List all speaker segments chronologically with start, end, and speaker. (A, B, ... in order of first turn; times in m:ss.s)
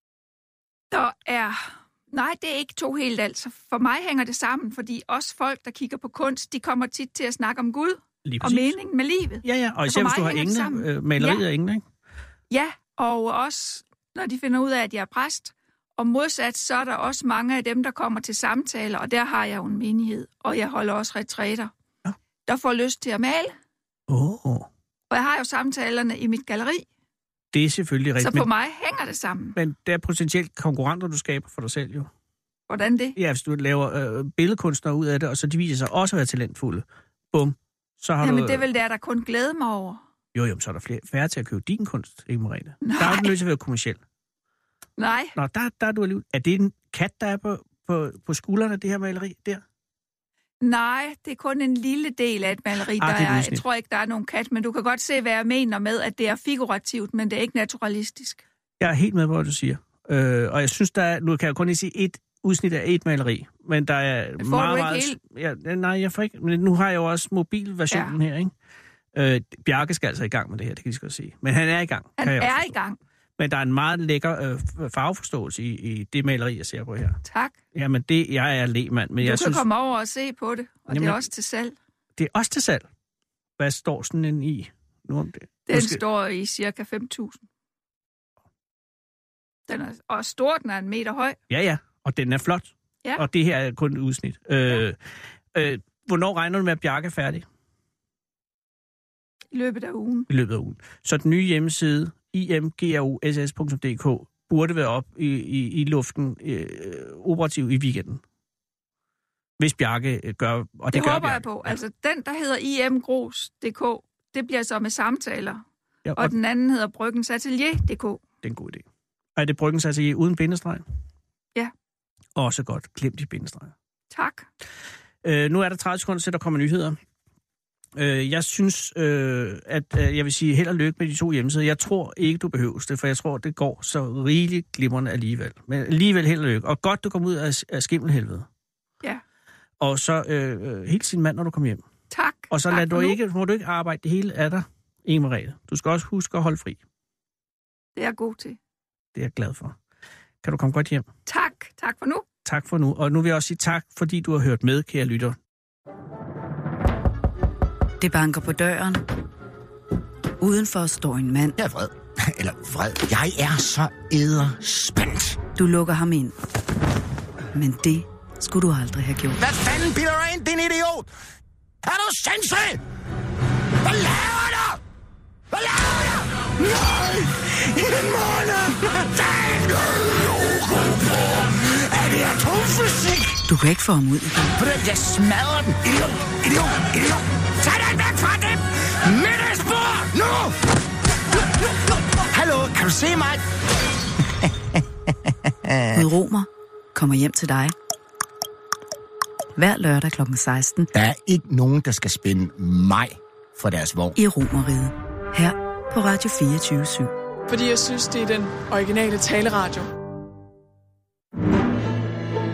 0:00.9-0:11.4 A
0:08.2-0:08.8 B
0:09.4-0:11.8 B
0:12.5-0:21.7 A
0:22.4-0:23.5 A
0:24.1-0:24.7 B
0:25.1-0:26.8 A
0:27.5-0:28.5 B
0:28.2-0:29.6 A
0:29.5-0:32.1 B
0:32.7-0:33.2 A
0:33.2-0:38.6 B
0:38.2-0:40.0 A
0:40.3-0:44.0 B
0:42.8-0:43.3 A
0:45.0-0:45.4 A
0:45.4-0:49.6 B
0:50.6-0:58.4 A
0:52.9-0:53.6 B
0:58.8-1:08.5 B
1:04.4-1:05.2 A
1:07.9-1:08.2 A
1:09.1-1:12.7 B
1:12.2-1:13.0 A
1:13.4-1:17.2 B
1:17.2-1:17.6 A
1:17.7-1:19.6 B
1:19.2-1:21.7 A
1:20.9-1:21.2 B
1:22.2-1:22.9 B
1:23.6-1:26.0 B
1:25.7-1:27.4 A
1:29.7-1:31.4 A
1:31.5-1:35.0 B
1:35.5-1:37.4 B
1:39.5-1:40.3 A
1:40.3-1:48.2 B
1:49.6-1:51.8 B
1:50.9-1:55.6 A
1:56.0-1:56.3 B
1:56.1-1:58.2 A
1:58.4-1:58.8 B
1:59.4-2:00.8 B
2:02.4-2:03.7 B
2:04.1-2:04.5 A
2:05.2-2:07.0 B
2:08.0-2:18.5 B
2:19.8-2:21.8 B
2:22.1-2:23.2 A
2:22.5-2:26.8 B
2:28.0-2:28.6 A
2:29.1-2:29.8 B
2:30.4-2:31.1 B
2:31.2-2:32.2 A
2:32.4-2:35.4 B
2:38.0-2:39.0 C
2:40.4-2:41.6 C
2:41.6-2:45.4 D
2:45.5-2:46.4 C
2:47.5-2:49.4 C
2:49.4-2:51.1 D
2:51.8-2:52.8 D
2:53.8-2:54.8 D
2:55.5-3:03.4 D
3:03.4-3:04.6 C
3:04.6-3:10.6 D
3:12.3-3:13.4 D
3:15.9-3:17.7 C
3:19.6-3:20.9 C
3:20.9-3:24.2 D
3:24.2-3:27.1 C
3:27.5-3:29.9 E